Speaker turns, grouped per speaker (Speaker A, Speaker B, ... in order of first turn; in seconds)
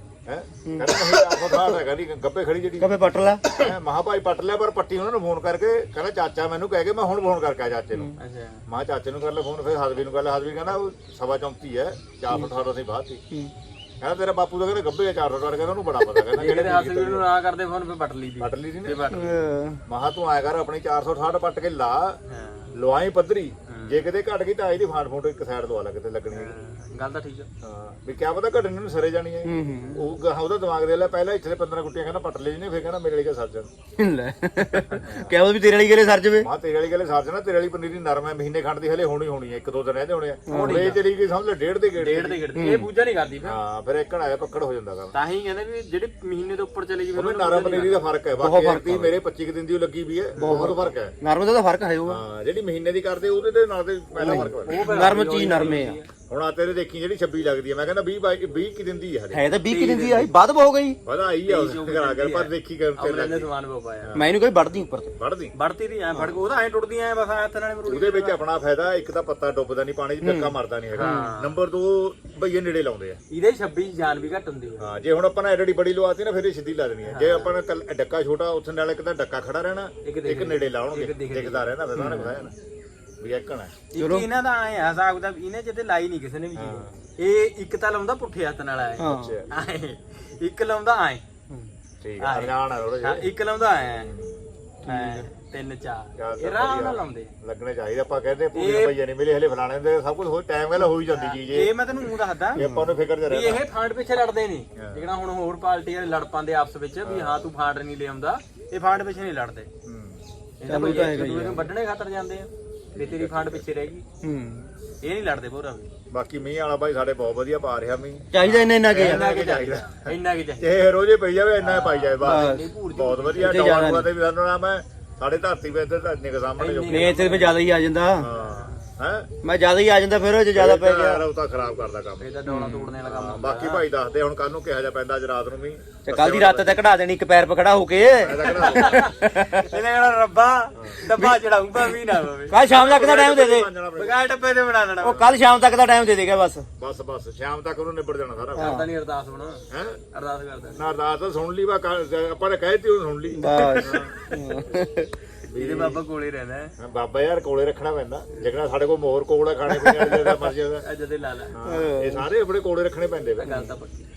Speaker A: 0.2-3.0, 3.6-8.1, 8.7-13.2, 14.0-17.3, 18.4-19.1, 19.9-22.2, 22.7-26.5, 27.6-33.7, 35.0-35.3, 36.4-42.8, 43.4-45.1, 47.1-51.1, 52.0-54.9, 56.3-59.5, 61.0-63.5, 65.2-65.5, 67.9-73.2, 74.8-82.5, 83.2-83.8, 86.5-86.9, 89.2-89.4, 92.0-93.3, 94.0-94.4, 96.2-101.8, 102.5-103.6, 104.7-105.1, 107.0-107.5, 109.8-110.2, 112.9-113.7, 116.1-127.4, 128.2-129.3, 130.5-132.3, 133.0-136.8, 138.2-139.1, 140.8-141.0, 142.7-144.2, 146.8-148.9, 149.7-150.0, 150.8-154.1, 155.5-156.0, 156.8-160.8, 161.5-163.7
Speaker B: 0.7-1.8, 2.8-3.7, 19.1-19.8, 29.4-30.0, 34.0-36.5, 40.5-41.0, 42.5-42.9, 48.4-49.1, 50.4-52.2, 54.2-56.0, 59.3-61.0, 64.1-65.1, 70.2-70.6, 82.0-82.3, 84.0-84.3, 89.0-89.4, 94.9-95.3, 102.6-102.9, 110.6-111.7, 114.2-114.7, 118.3-119.4, 122.2-122.7, 123.4-124.1, 126.9-128.3, 129.4-131.2, 132.4-133.0, 136.1-139.7, 141.1-141.4, 142.5-143.7, 145.0-146.7, 148.6-148.9, 153.3-155.1, 159.7-160.3, 161.6-162.3
Speaker C: 8.2-8.6, 16.2-19.4, 22.3-22.7, 23.7-24.0, 26.3-27.5, 40.5-41.0, 42.0-43.6, 45.1-48.1, 50.4-50.8, 54.2-56.1, 59.6-60.3, 61.5-64.2, 65.6-68.4, 70.9-71.5, 73.3-74.9, 77.0-77.5, 80.0-82.4, 83.9-91.2, 92.2-94.1, 94.8-97.3, 98.5-99.0, 100.8-102.7, 103.3-109.7, 110.6-114.0, 115.0-115.9, 118.9-120.7, 121.6-123.7, 126.6-127.6, 128.3-128.9, 132.2-133.9, 138.6-139.1, 139.6-143.0, 143.9-145.3, 148.5-149.6, 150.1-150.9, 153.6-154.4, 155.5-156.7, 160.8-161.5, 163.4-163.9